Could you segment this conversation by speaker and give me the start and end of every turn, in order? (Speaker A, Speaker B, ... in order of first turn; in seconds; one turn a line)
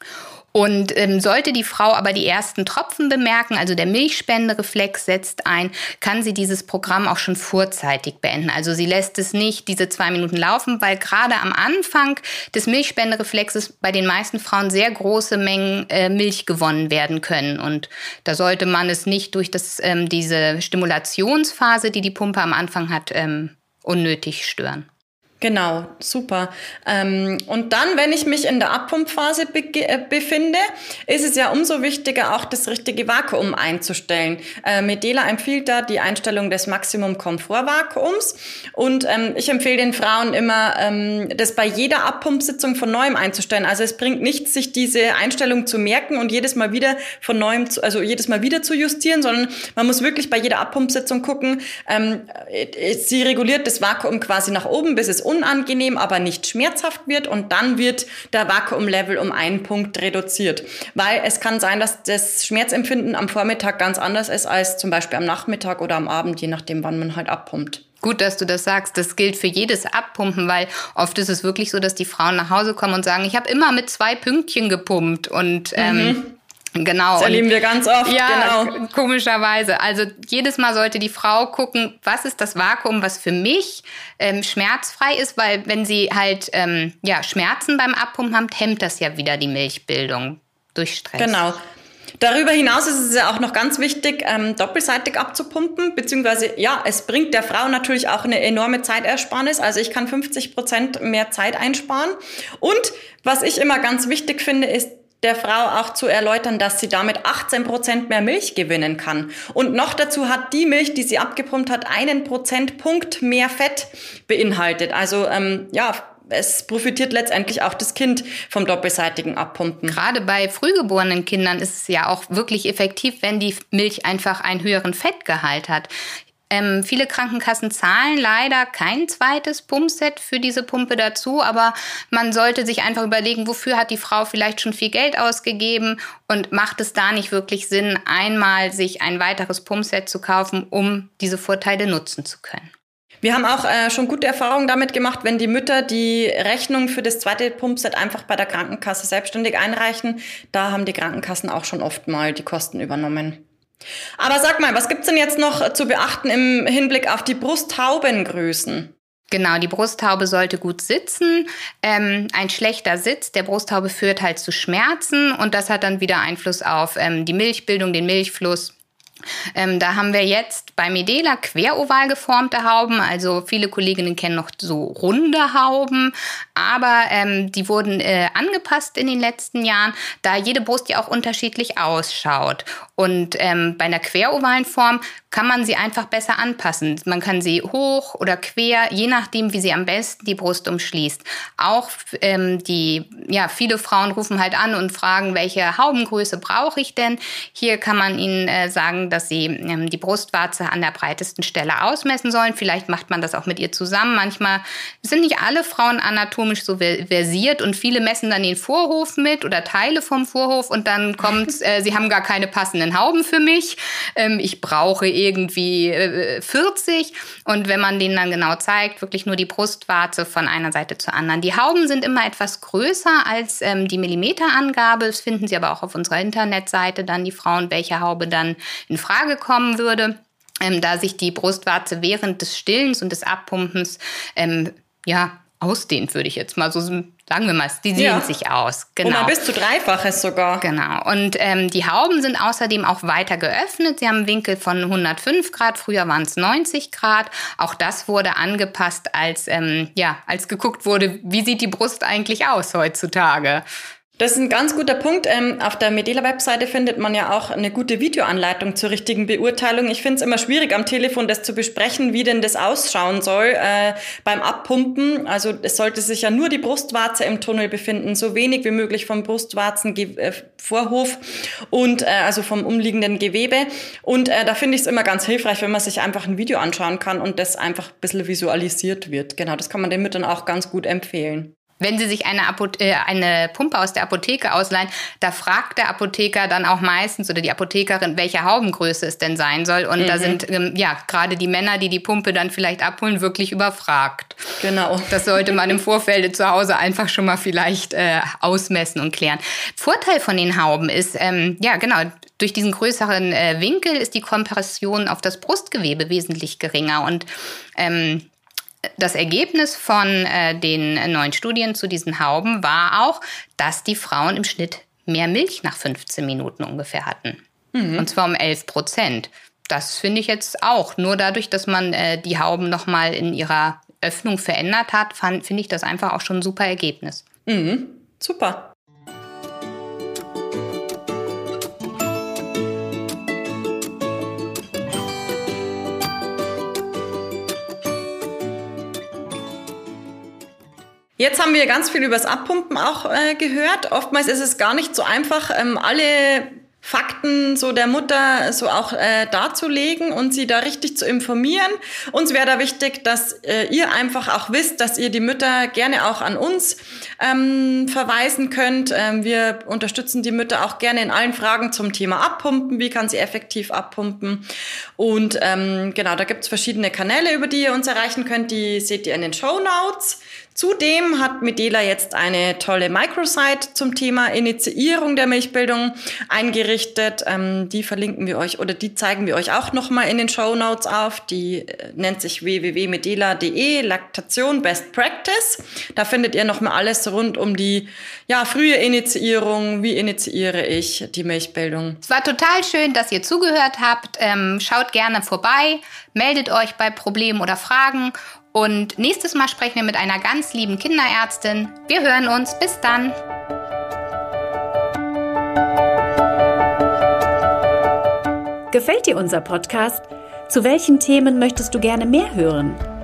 Speaker A: 0.5-24.9
Speaker B: 25.4-67.8
Speaker A: 68.0-76.2
Speaker B: 75.8-76.3
Speaker A: 76.8-77.4
Speaker B: 77.2-78.8
Speaker A: 78.0-91.5
Speaker B: 91.2-91.6
Speaker B: 92.2-120.0
Speaker A: 119.8-125.9
Speaker A: 126.5-142.7
Speaker B: 143.2-153.4
Speaker B: 154.2-158.9
Speaker A: 159.3-168.7
Speaker A: 169.5-239.3
Speaker B: 237.9-238.3
Speaker B: 239.0-240.6
Speaker A: 240.6-253.6
Speaker B: 254.2-281.5
Speaker A: 281.8-294.5
Speaker B: 290.0-290.4
Speaker B: 294.6-295.6
Speaker A: 295.1-308.3
Speaker A: 309.0-317.4
Speaker B: 317.7-318.1
Speaker A: 318.0-327.2
Speaker B: 327.5-328.7
Speaker B: 341.2-364.4
Speaker B: 365.0-392.0
Speaker A: 392.0-403.2
Speaker C: 408.7-412.8